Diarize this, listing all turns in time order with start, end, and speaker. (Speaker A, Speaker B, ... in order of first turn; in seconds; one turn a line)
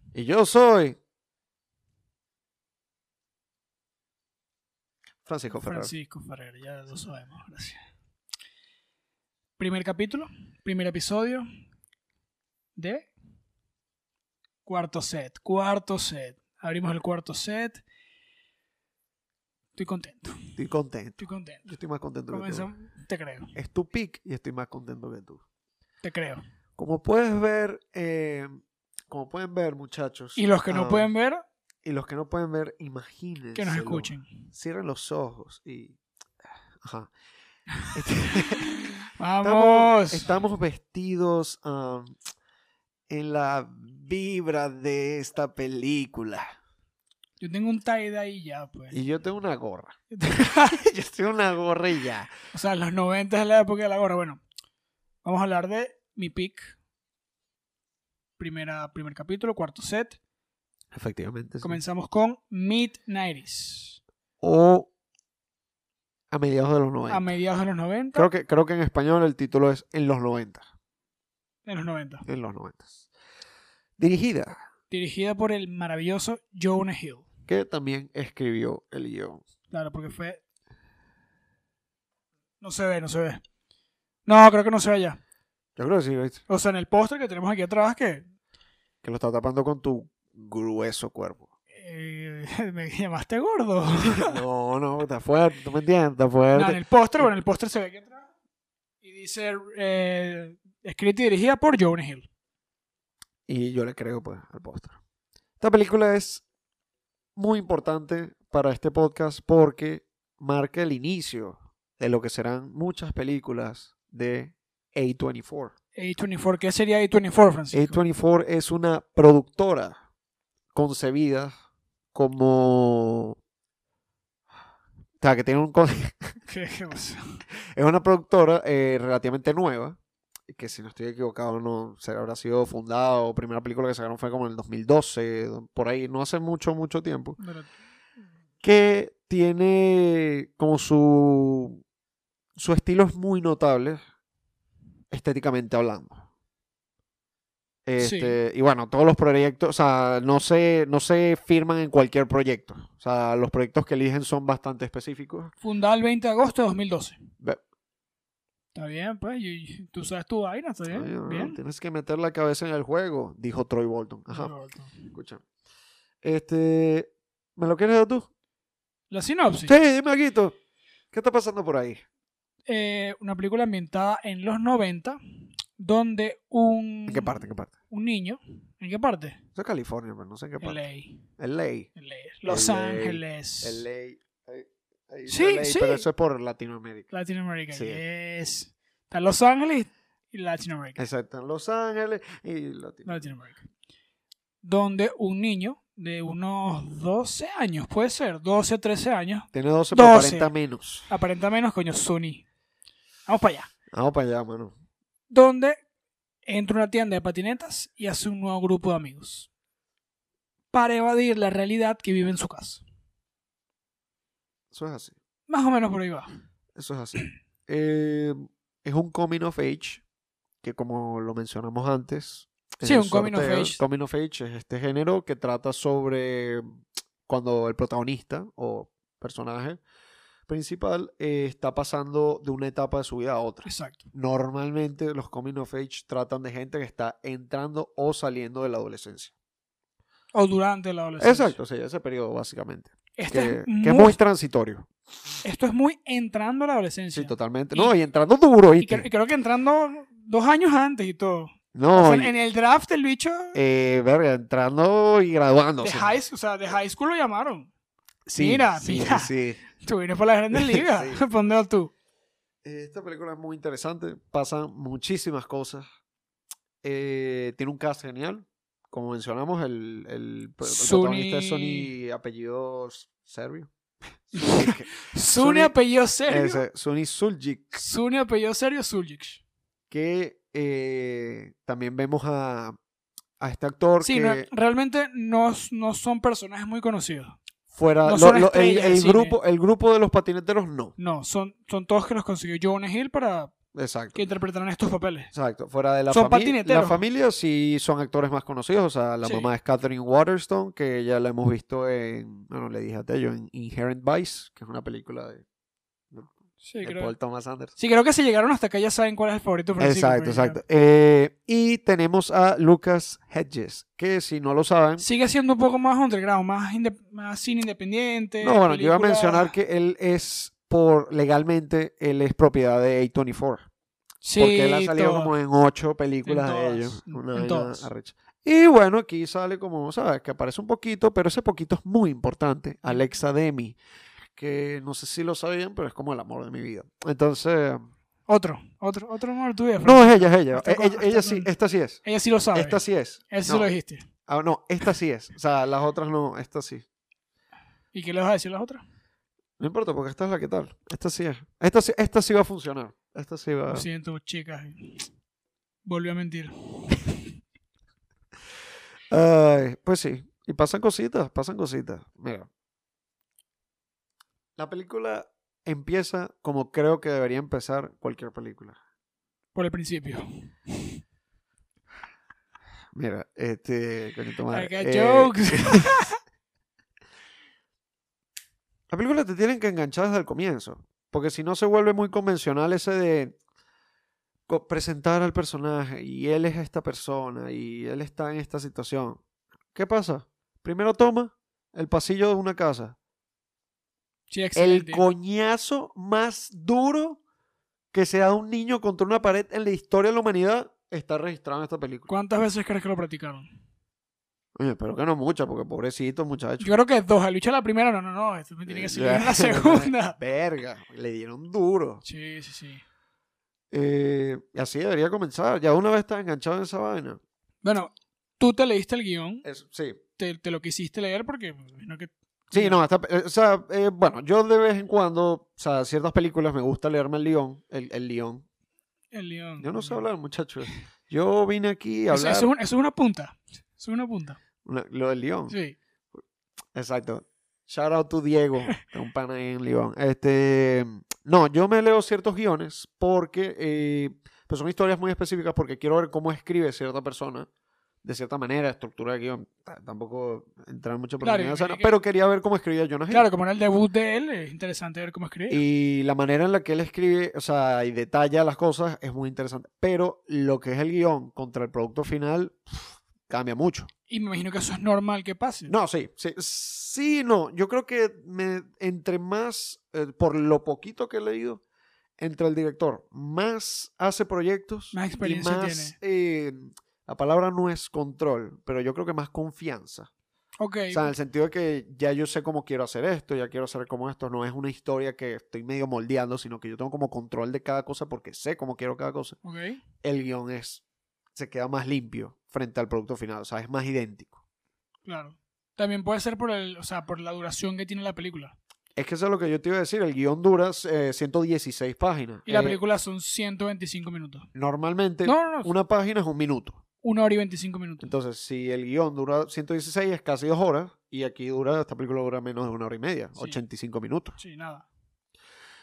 Speaker A: 0.1-1.0
Speaker A: 5.2-5.9
Speaker B: 5.5-7.8
Speaker B: 9.6-11.5
Speaker B: 12.8-13.1
Speaker B: 14.7-17.8
Speaker B: 19.8-20.6
Speaker A: 20.6-22.7
Speaker B: 21.2-21.7
Speaker B: 22.3-23.5
Speaker A: 23.5-25.4
Speaker B: 26.0-26.4
Speaker A: 26.8-31.1
Speaker B: 30.4-31.4
Speaker A: 31.8-36.0
Speaker B: 33.5-34.4
Speaker A: 36.8-37.1
Speaker A: 37.9-38.8
Speaker B: 38.6-40.3
Speaker A: 39.4-42.2
Speaker A: 43.1-46.5
Speaker B: 47.4-49.0
Speaker A: 48.9-50.0
Speaker B: 50.1-50.8
Speaker A: 50.5-52.3
Speaker B: 52.5-54.4
Speaker B: 55.2-56.8
Speaker B: 58.4-60.2
Speaker A: 60.9-61.8
Speaker B: 61.6-64.0
Speaker A: 64.4-64.9
Speaker A: 66.3-67.3
Speaker B: 67.1-68.3
Speaker A: 68.2-70.7
Speaker B: 71.7-72.2
Speaker A: 72.2-73.0
Speaker A: 74.0-74.6
Speaker B: 74.9-77.3
Speaker A: 77.5-79.4
Speaker B: 79.7-80.4
Speaker B: 82.6-83.4
Speaker B: 84.3-85.2
Speaker A: 85.8-86.4
Speaker B: 86.5-88.2
Speaker A: 89.0-91.5
Speaker B: 91.7-94.4
Speaker A: 93.9-97.3
Speaker B: 96.5-98.3
Speaker B: 99.0-102.3
Speaker A: 103.5-105.0
Speaker A: 105.6-106.4
Speaker A: 107.4-115.7
Speaker B: 116.0-118.0
Speaker A: 117.7-120.0
Speaker A: 120.7-121.5
Speaker A: 122.1-123.4
Speaker A: 125.2-126.4
Speaker B: 126.5-127.4
Speaker A: 127.5-130.0
Speaker A: 130.5-137.4
Speaker B: 137.4-137.7
Speaker A: 138.6-141.8
Speaker A: 142.6-144.0
Speaker A: 145.1-146.2
Speaker A: 147.9-155.5
Speaker B: 148.0-148.4
Speaker B: 155.6-157.2
Speaker B: 158.7-161.6
Speaker A: 160.9-164.5
Speaker B: 164.3-164.9
Speaker A: 165.1-165.4
Speaker A: 166.2-168.3
Speaker B: 169.1-169.8
Speaker A: 169.7-170.6
Speaker A: 171.1-172.0
Speaker B: 172.7-175.2
Speaker B: 175.8-179.4
Speaker A: 177.1-177.7
Speaker A: 179.6-180.8
Speaker B: 180.6-181.3
Speaker A: 181.4-181.9
Speaker B: 182.0-183.8
Speaker A: 182.5-187.1
Speaker B: 185.3-186.1
Speaker B: 187.1-191.1
Speaker A: 187.7-188.0
Speaker A: 191.0-193.3
Speaker B: 193.1-193.7
Speaker B: 194.6-200.5
Speaker A: 199.5-201.1
Speaker B: 201.1-202.4
Speaker B: 203.3-203.7
Speaker A: 203.9-204.7
Speaker B: 205.3-205.8
Speaker B: 206.4-209.5
Speaker B: 210.7-212.8
Speaker A: 214.7-215.2
Speaker B: 215.5-216.3
Speaker A: 216.8-220.0
Speaker A: 220.6-226.7
Speaker B: 222.8-223.8
Speaker A: 227.3-229.8
Speaker A: 230.5-239.3
Speaker B: 233.7-234.1
Speaker B: 240.3-241.6
Speaker A: 241.2-244.9
Speaker B: 243.2-244.2
Speaker B: 245.4-247.9
Speaker A: 247.1-249.1
Speaker B: 248.8-253.6
Speaker A: 251.7-252.3
Speaker A: 253.5-256.2
Speaker B: 255.8-257.7
Speaker A: 258.3-259.6
Speaker B: 258.4-261.9
Speaker A: 260.5-261.3
Speaker A: 262.6-265.9
Speaker A: 266.8-273.7
Speaker B: 270.6-271.9
Speaker A: 274.3-275.7
Speaker B: 274.4-276.6
Speaker A: 276.3-277.8
Speaker B: 277.7-279.4
Speaker A: 279.9-282.8
Speaker A: 283.4-284.5
Speaker B: 284.0-287.4
Speaker A: 287.7-290.9
Speaker B: 288.0-289.4
Speaker B: 291.0-293.5
Speaker A: 293.7-294.2
Speaker B: 294.1-295.3
Speaker A: 295.3-305.4
Speaker B: 296.1-297.0
Speaker B: 299.2-299.5
Speaker A: 306.1-307.7
Speaker B: 306.6-307.1
Speaker B: 307.8-310.6
Speaker A: 309.8-315.1
Speaker B: 315.0-319.5
Speaker A: 318.4-323.7
Speaker B: 324.2-325.3
Speaker A: 324.4-333.8
Speaker B: 326.3-327.9
Speaker A: 334.4-337.9
Speaker B: 338.3-341.5
Speaker A: 339.8-342.0
Speaker B: 342.1-344.1
Speaker A: 342.5-343.7
Speaker A: 344.3-346.9
Speaker B: 347.9-348.8
Speaker A: 349.6-353.9
Speaker B: 353.7-355.1
Speaker B: 355.9-357.2
Speaker A: 359.1-362.5
Speaker A: 364.6-368.8
Speaker B: 369.6-371.0
Speaker A: 372.9-376.0
Speaker B: 374.5-376.2
Speaker A: 378.9-383.4
Speaker A: 384.5-389.2
Speaker A: 389.7-393.0
Speaker B: 394.3-395.1
Speaker A: 394.6-397.2
Speaker A: 397.9-402.1
Speaker B: 402.1-403.5
Speaker A: 404.6-406.7
Speaker B: 406.6-410.2
Speaker A: 408.7-412.0
Speaker B: 412.1-412.8
Speaker A: 413.7-417.2
Speaker B: 417.6-419.4
Speaker A: 419.4-420.0
Speaker B: 420.2-422.8
Speaker A: 422.5-428.4
Speaker B: 429.1-430.1
Speaker A: 429.6-432.5
Speaker B: 432.1-434.4
Speaker A: 434.6-435.6
Speaker B: 435.5-435.8
Speaker A: 436.7-447.5
Speaker A: 448.0-453.3
Speaker B: 451.2-451.9
Speaker B: 453.1-455.6
Speaker A: 455.5-463.9
Speaker B: 464.1-465.8
Speaker A: 465.7-471.6
Speaker A: 472.2-480.1
Speaker B: 474.9-476.0
Speaker B: 480.6-481.1
Speaker A: 480.9-489.4
Speaker B: 489.4-489.8
Speaker A: 490.0-490.8
Speaker A: 491.4-494.4
Speaker B: 495.1-498.6
Speaker A: 499.0-502.8
Speaker B: 502.5-504.5
Speaker A: 504.5-506.8
Speaker B: 505.2-505.7
Speaker B: 507.0-508.1
Speaker A: 508.0-514.4
Speaker B: 514.4-514.9